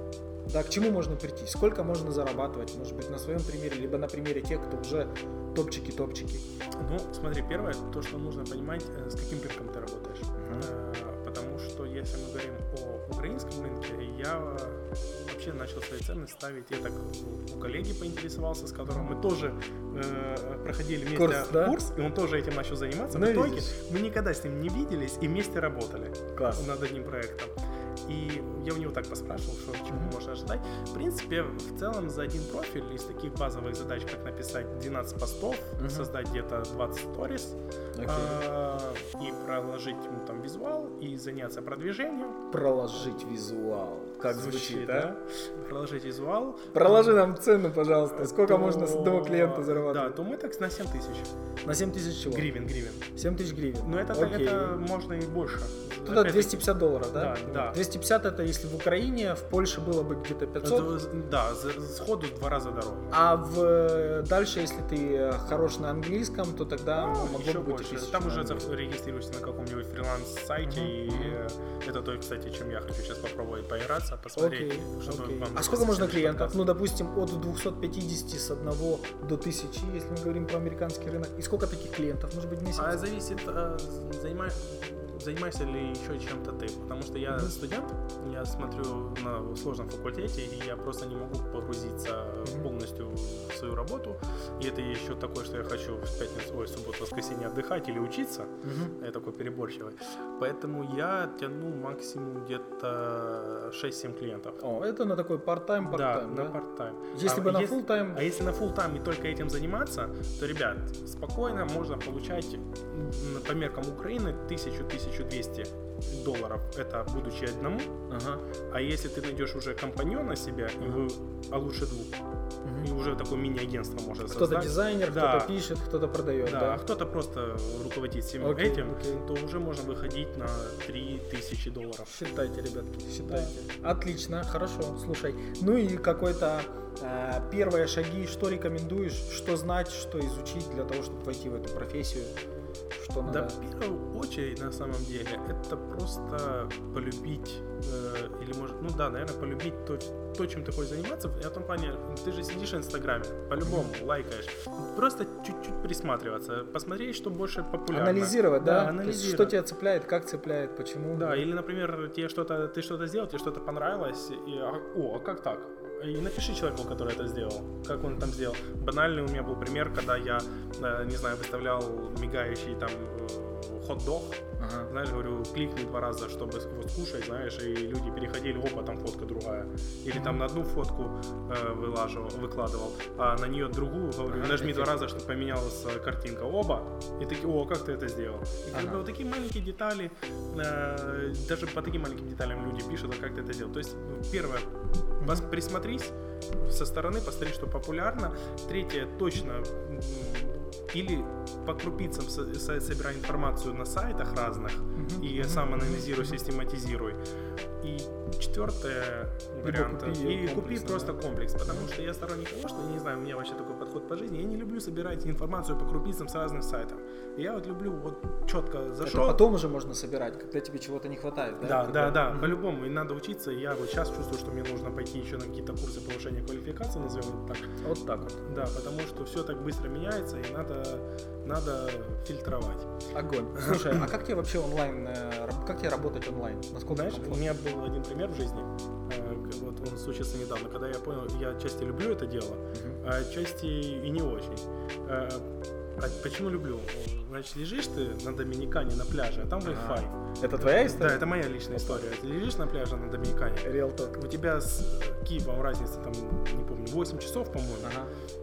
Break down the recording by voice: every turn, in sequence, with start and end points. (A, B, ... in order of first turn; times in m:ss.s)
0:00.5-0:06.4 A
0:06.8-0:27.5 B
0:10.4-0:10.7 A
0:21.1-0:21.8 A
0:23.1-0:23.7 A
0:26.3-0:26.6 A
0:28.0-0:42.4 B
0:29.9-0:30.1 A
0:35.8-0:36.1 A
0:37.9-0:38.4 A
0:42.5-0:45.1 A
0:44.3-0:47.2 B
0:46.7-0:50.2 A
0:48.1-0:51.3 B
0:51.6-0:52.5 A
0:52.2-0:53.0 B
0:53.1-0:54.8 A
0:53.8-0:57.8 B
0:56.0-1:01.0 A
1:00.6-1:03.2 B
1:03.1-1:08.6 A
1:06.9-1:16.6 B
1:10.6-1:11.4 A
1:14.4-1:23.0 A
1:22.8-1:44.6 B
1:38.6-1:39.0 A
1:44.6-1:46.6 A
1:45.8-1:57.9 B
1:47.1-1:48.2 A
1:58.1-1:58.4 A
1:58.7-2:02.1 B
2:02.6-2:02.9 A
2:02.8-2:05.5 B
2:04.2-2:06.8 A
2:06.4-2:12.2 B
2:08.4-2:09.2 A
2:12.0-2:22.3 A
2:13.2-2:13.6 B
2:23.0-2:23.6 A
2:23.2-2:39.6 B
2:33.6-2:33.9 A
2:37.9-2:41.5 A
2:41.2-3:27.2 B
2:54.6-2:54.9 A
3:00.1-3:00.4 A
3:04.3-3:04.9 A
3:08.7-3:09.0 A
3:25.0-3:26.4 A
3:27.8-3:39.4 B
3:29.6-3:31.1 A
3:39.0-3:42.6 A
3:41.6-3:47.7 B
3:47.8-3:48.4 A
3:48.3-3:52.9 B
3:53.1-3:57.4 A
3:53.5-3:54.0 B
3:56.9-4:17.9 B
4:02.7-4:03.0 A
4:09.6-4:12.0 A
4:13.6-4:14.2 A
4:17.8-4:18.1 A